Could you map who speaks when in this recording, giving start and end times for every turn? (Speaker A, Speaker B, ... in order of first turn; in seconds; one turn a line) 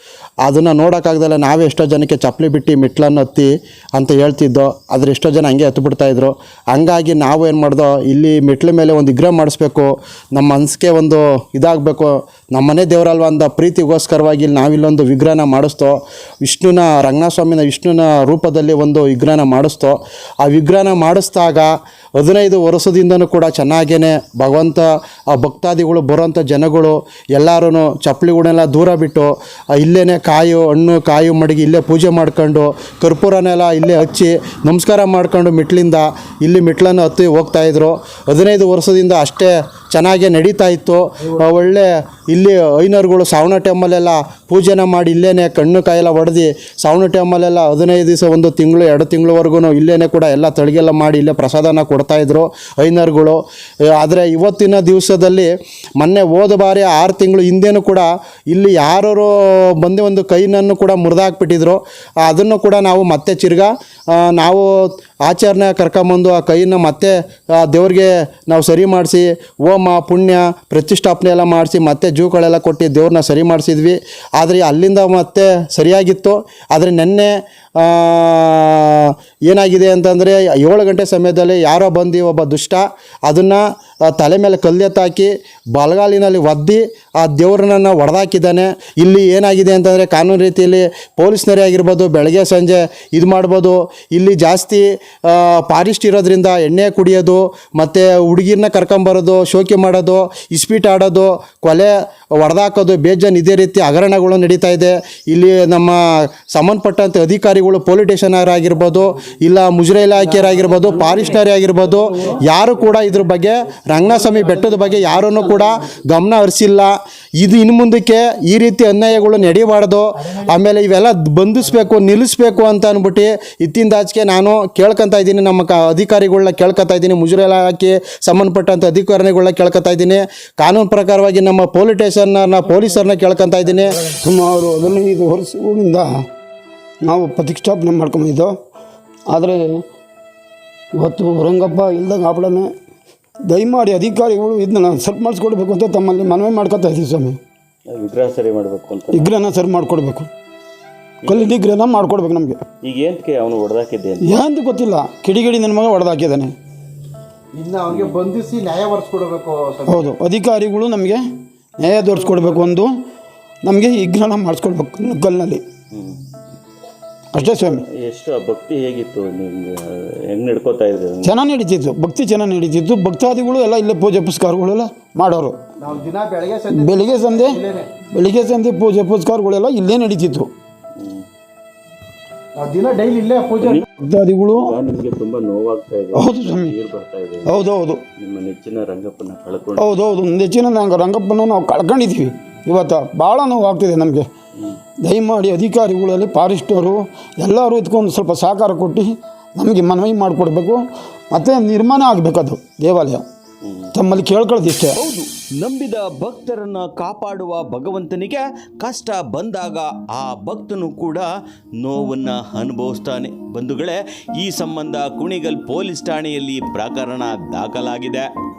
Speaker A: 0.4-134.0
Speaker B: 134.1-136.1
Speaker B: 137.0-138.5
Speaker B: 139.3-139.8
Speaker B: 140.9-142.7
Speaker B: 143.5-147.4
Speaker C: 147.9-149.3
Speaker B: 149.1-150.3
Speaker C: 151.2-151.5
Speaker B: 151.2-152.6
Speaker C: 152.8-154.4
Speaker B: 154.2-156.5
Speaker A: 157.5-160.1
Speaker C: 157.9-158.2
Speaker B: 159.9-161.2
Speaker B: 161.8-162.9
Speaker A: 162.1-162.6
Speaker B: 163.6-165.6
Speaker C: 165.9-166.2
Speaker B: 167.3-167.8
Speaker C: 167.5-171.4
Speaker B: 171.2-175.6
Speaker A: 175.8-178.0
Speaker B: 176.7-180.5
Speaker C: 181.0-181.2
Speaker A: 182.6-183.8
Speaker C: 183.6-183.8
Speaker B: 184.0-184.7
Speaker C: 184.5-187.6
Speaker B: 186.1-186.7
Speaker B: 187.4-188.0
Speaker C: 188.2-189.9
Speaker B: 189.8-194.3
Speaker B: 195.0-203.2
Speaker C: 203.6-203.9
Speaker B: 203.9-204.9
Speaker C: 204.9-218.3